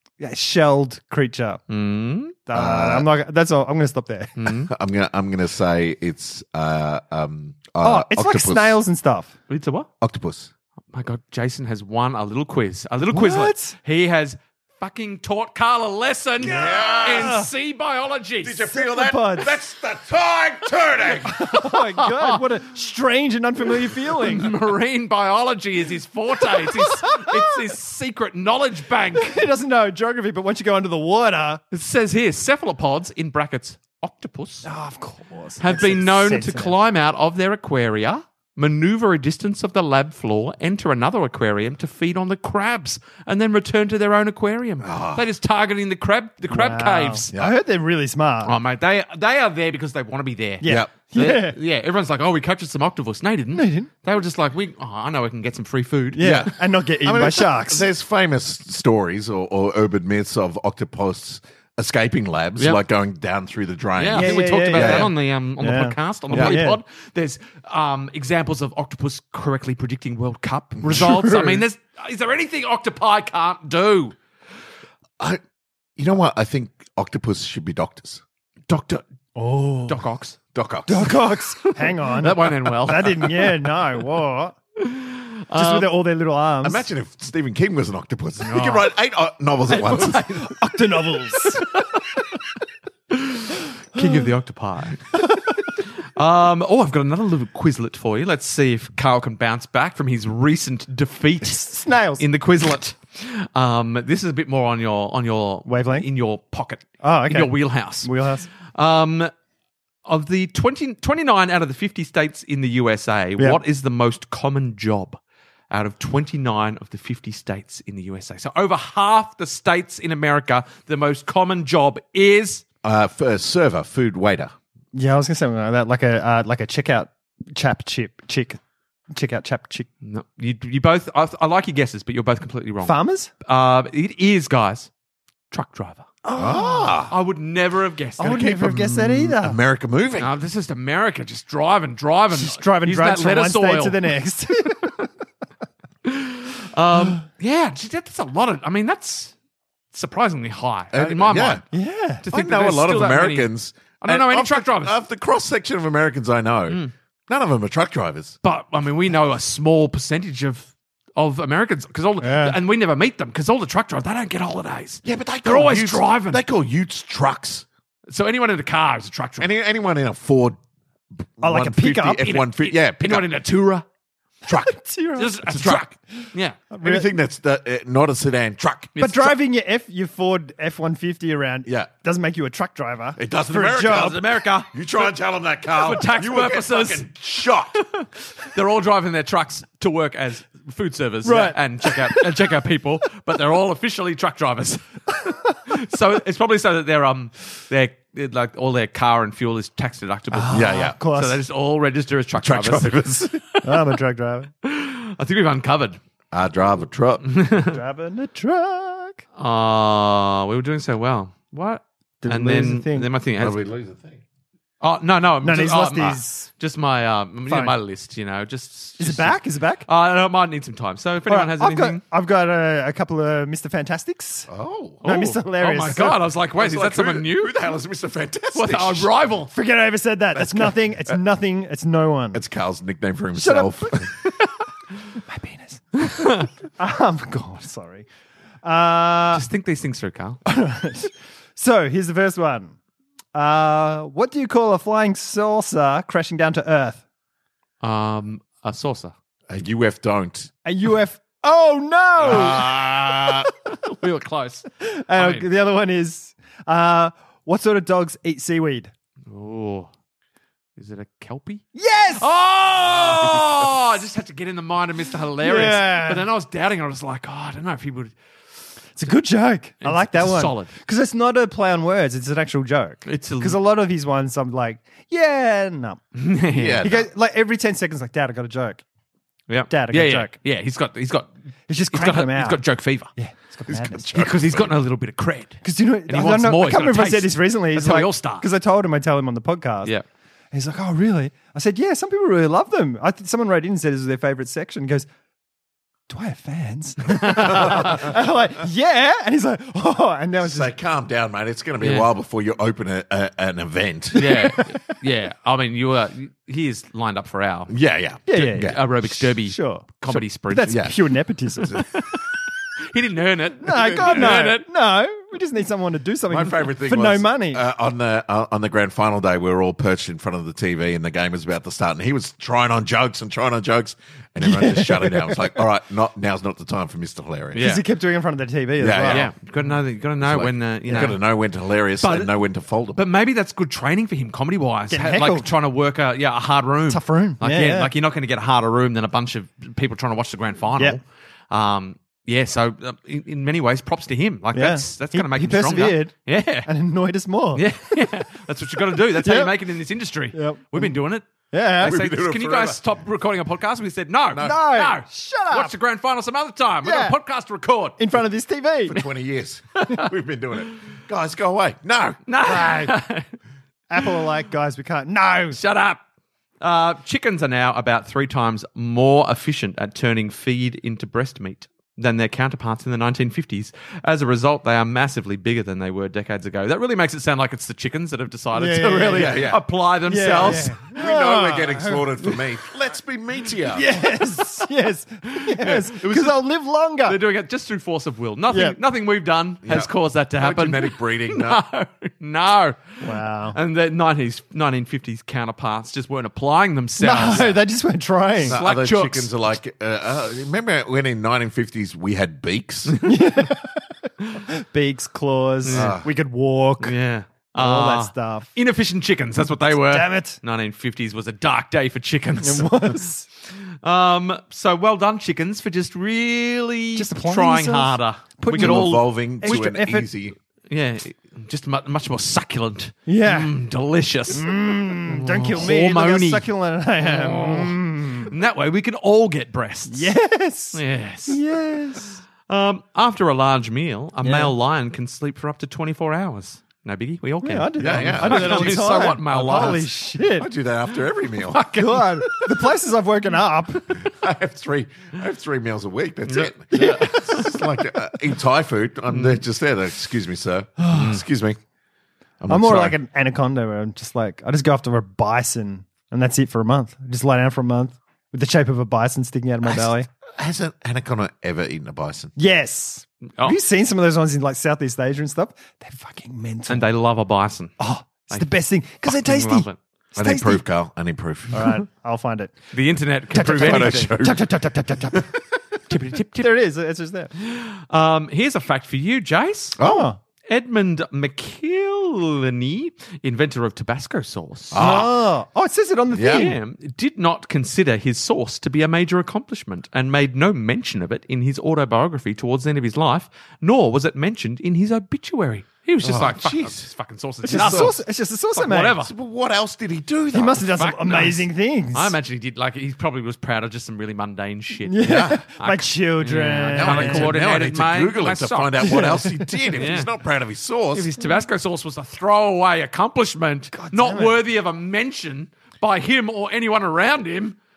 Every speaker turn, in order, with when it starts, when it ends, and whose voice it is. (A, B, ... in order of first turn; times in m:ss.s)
0:00.2-0:01.6 A
0:01.7-0:02.4 B
0:02.4-0:04.4 A
0:02.5-0:03.1 C
0:04.4-0:04.7 B
0:04.5-0:08.8 C
0:07.8-0:09.3 A
0:09.5-0:09.9 B
0:10.0-0:10.5 C
0:10.9-0:18.6 B
0:13.1-0:13.7 A
0:16.4-0:17.4 C
0:16.4-0:17.5 A
0:18.4-0:21.4 C
0:18.7-0:19.6 A
0:21.2-0:24.6 A
0:21.5-0:22.4 B
0:24.1-0:29.4 B
0:26.4-0:27.6 A
0:29.1-0:31.6 A
0:31.7-0:34.7 B
0:34.6-0:36.7 A
0:35.6-0:47.3 B
0:44.8-0:45.2 C
0:46.5-0:48.6 A
0:48.4-0:56.5 B
0:50.6-0:51.6 A
0:50.6-0:50.9 C
0:53.5-0:53.9 A
0:56.1-0:57.8 A
0:56.2-1:05.1 C
1:04.0-1:14.2 B
1:04.1-1:06.8 A
1:06.3-1:06.6 C
1:10.8-1:11.6 A
1:16.0-1:18.2 C
1:18.7-1:19.0 B
1:19.4-1:20.0 A
1:19.9-1:20.4 B
1:20.5-1:21.2 C
1:20.9-1:24.6 A
1:21.5-1:23.6 B
1:24.8-1:25.9 B
1:25.5-1:26.8 A
1:26.6-1:30.2 C
1:28.5-1:28.9 B
1:29.7-1:30.6 B
1:30.3-1:31.6 A
1:31.3-1:32.2 B
1:33.1-1:35.2 B
1:33.9-1:34.3 A
1:35.1-1:35.7 A
1:36.0-1:48.1 B
1:41.4-1:42.2 A
1:45.6-1:46.1 A
1:47.0-1:48.5 A
1:48.7-1:49.3 B
1:50.0-1:55.2 B
1:55.7-2:02.6 B
2:02.8-2:04.5 C
2:04.9-2:08.6 A
2:09.1-2:09.9 A
2:10.0-2:14.9 B
2:12.8-2:13.3 A
2:15.5-2:16.0 B
2:16.2-2:17.0 A
2:16.3-2:17.1 C
2:17.1-2:18.6 B
2:18.2-2:19.6 A
2:18.2-2:20.3 C
2:20.2-2:24.0 B
2:22.3-2:25.1 A
2:26.0-2:29.3 B
2:29.9-2:31.6 B
2:30.9-2:31.6 C
2:31.7-2:32.2 A
2:32.2-2:34.9 B
2:32.3-2:38.4 C
2:38.4-2:46.4 B
2:42.2-2:42.6 A
2:45.0-2:47.6 C
2:48.1-2:49.5 B
2:49.4-2:50.6 C
2:51.2-2:53.3 C
2:51.4-2:52.3 A
2:52.2-2:53.8 B
2:54.5-2:54.7 C
2:54.5-2:55.4 A
2:55.2-2:56.6 B
2:55.4-2:55.9 C
2:56.7-2:57.1 A
2:56.8-2:59.0 C
2:59.0-2:59.3 B
2:59.0-3:04.2 A
3:03.2-3:07.8 C
3:03.8-3:05.1 B
3:05.7-3:07.1 B
3:07.7-3:23.9 B
3:11.2-3:12.5 A
3:20.3-3:21.4 A
3:20.5-3:21.0 C
3:22.4-3:23.4 C
3:23.6-3:24.5 A
3:24.6-3:26.0 B
3:26.3-3:27.3 C
3:27.2-3:27.8 B
3:27.7-3:29.2 A
3:29.4-3:33.6 B
3:32.2-3:33.1 A
3:33.4-3:34.2 C
3:34.8-3:42.0 B
3:35.4-3:36.5 A
3:37.5-3:37.8 A
3:39.0-3:39.8 A
3:41.3-3:44.5 A
3:44.5-3:45.0 C
3:45.0-3:46.2 A
3:45.0-3:47.6 B
3:46.5-3:49.1 C
3:48.5-3:49.5 B
3:49.5-3:52.4 A
3:50.4-3:50.7 C
3:52.3-3:54.1 C
3:53.3-3:54.1 A
3:55.1-3:58.0 A
3:56.0-3:56.5 B
3:58.6-3:59.5 A
3:59.3-4:00.4 B
4:00.4-4:02.8 A
4:03.3-4:07.0 A
4:07.8-4:09.1 B
4:09.5-4:10.5 C
4:10.6-4:13.7 A
4:12.2-4:13.5 C
4:12.3-4:12.6 B
4:13.8-4:15.4 B
4:14.8-4:18.9 A
4:19.3-4:19.9 B
4:20.8-4:28.2 B
4:21.7-4:22.3 A
4:22.9-4:23.7 A
4:25.4-4:26.3 A
4:29.0-4:36.0 A
4:29.8-4:30.7 B
4:33.0-4:33.6 B
4:36.1-4:36.9 B
4:36.5-4:37.0 C
4:36.8-4:38.8 A
4:39.5-4:41.3 B
4:39.7-4:40.3 A
4:41.7-4:42.6 A
4:41.9-4:43.1 B
4:43.2-4:44.3 A
4:43.7-4:44.8 C
4:44.1-4:48.4 B
4:45.6-4:49.9 A
4:50.5-4:55.1 A
4:56.1-5:00.7 A
4:57.2-4:58.0 B
4:57.4-4:58.1 C
5:00.4-5:04.3 C
5:01.8-5:02.1 B
5:04.1-5:07.7 B
5:04.2-5:04.8 A
5:07.7-5:08.8 C
5:08.3-5:11.8 A
5:08.5-5:10.8 B
5:10.7-5:10.9 C
5:11.6-5:11.9 C
5:11.7-5:14.6 B
5:13.6-5:17.6 A
5:13.7-5:14.5 C
5:16.3-5:27.7 C
5:24.4-5:25.6 A
5:27.5-5:27.8 B
5:27.6-5:29.3 A
5:28.8-5:29.3 C
5:29.0-5:31.2 B
5:30.2-5:33.0 C
5:32.0-5:32.3 B
5:32.9-5:46.7 B
5:34.9-5:35.5 A
5:36.9-5:37.9 A
5:44.5-5:47.7 A
5:47.5-5:58.0 B
5:49.1-5:49.5 A
5:50.3-5:50.9 A
5:51.5-5:52.0 A
5:51.8-5:52.8 C
5:54.3-5:54.6 C
5:54.4-5:55.7 A
5:56.8-5:57.2 A
5:58.0-5:59.0 A
5:58.9-6:02.2 C
5:59.7-6:00.1 B
6:02.3-6:03.3 B
6:02.4-6:03.0 A
6:03.9-6:05.6 A
6:05.5-6:06.0 B
6:06.6-6:20.9 B
6:18.5-6:19.5 A
6:19.1-6:19.6 C
6:20.1-6:22.4 A
6:20.4-6:23.9 C
6:23.6-6:27.2 A
6:25.3-6:26.4 B
6:27.0-6:37.6 B
6:28.5-6:28.8 A
6:29.6-6:31.6 C
6:33.0-6:33.6 A
6:37.0-6:38.6 A
6:38.4-6:39.3 B
6:38.5-6:43.0 C
6:42.9-6:43.3 B
6:43.0-6:46.9 A
6:45.6-6:46.0 B
6:45.7-6:46.1 C
6:46.8-6:53.0 B
6:47.6-6:48.5 A
6:49.7-6:50.4 A
6:52.4-6:53.2 A
6:53.5-6:59.6 B
6:57.0-7:00.1 A
6:58.5-7:00.3 C
7:00.7-7:06.5 B
7:03.1-7:03.5 A
7:04.3-7:08.3 A
7:07.0-7:10.1 B
7:09.9-7:12.2 A
7:10.7-7:11.4 B
7:12.5-7:19.9 B
7:14.2-7:14.5 A
7:17.4-7:20.5 A
7:17.8-7:18.9 C
7:19.5-7:19.8 C
7:20.3-7:21.6 C
7:21.5-7:22.7 B
7:21.7-7:24.0 A
7:24.0-7:31.6 C
7:26.3-7:27.5 B
7:26.7-7:27.6 A
7:29.1-7:29.4 B
7:30.8-7:31.1 A
7:31.0-7:31.2 B
7:32.4-7:33.0 C
7:32.5-7:40.1 A
7:39.6-7:42.3 C
7:42.4-7:46.9 A
7:46.7-7:47.7 B
7:47.8-7:50.6 A
7:49.0-7:49.8 B
7:50.2-7:51.6 C
7:51.5-7:52.6 A
7:52.7-7:54.1 B
7:53.3-7:55.4 A
7:53.4-7:54.4 C
7:55.9-7:56.5 B
7:56.4-7:57.3 A
7:57.4-7:59.8 B
7:59.8-8:00.1 C
7:59.8-8:00.2 A
8:00.5-8:05.0 B
8:04.7-8:05.1 C
8:04.8-8:06.6 A
8:06.1-8:06.5 C
8:06.2-8:18.0 B
8:16.0-8:16.9 C
8:17.4-8:19.0 A
8:17.5-8:17.9 C
8:18.5-8:19.1 B
8:19.0-8:20.7 C
8:20.3-8:22.1 A
8:20.7-8:29.0 B
8:24.8-8:27.4 A
8:25.0-8:25.4 C
8:26.8-8:31.1 C
8:28.8-8:29.7 A
8:29.8-8:30.1 B
8:30.9-8:37.6 B
8:33.7-8:34.4 A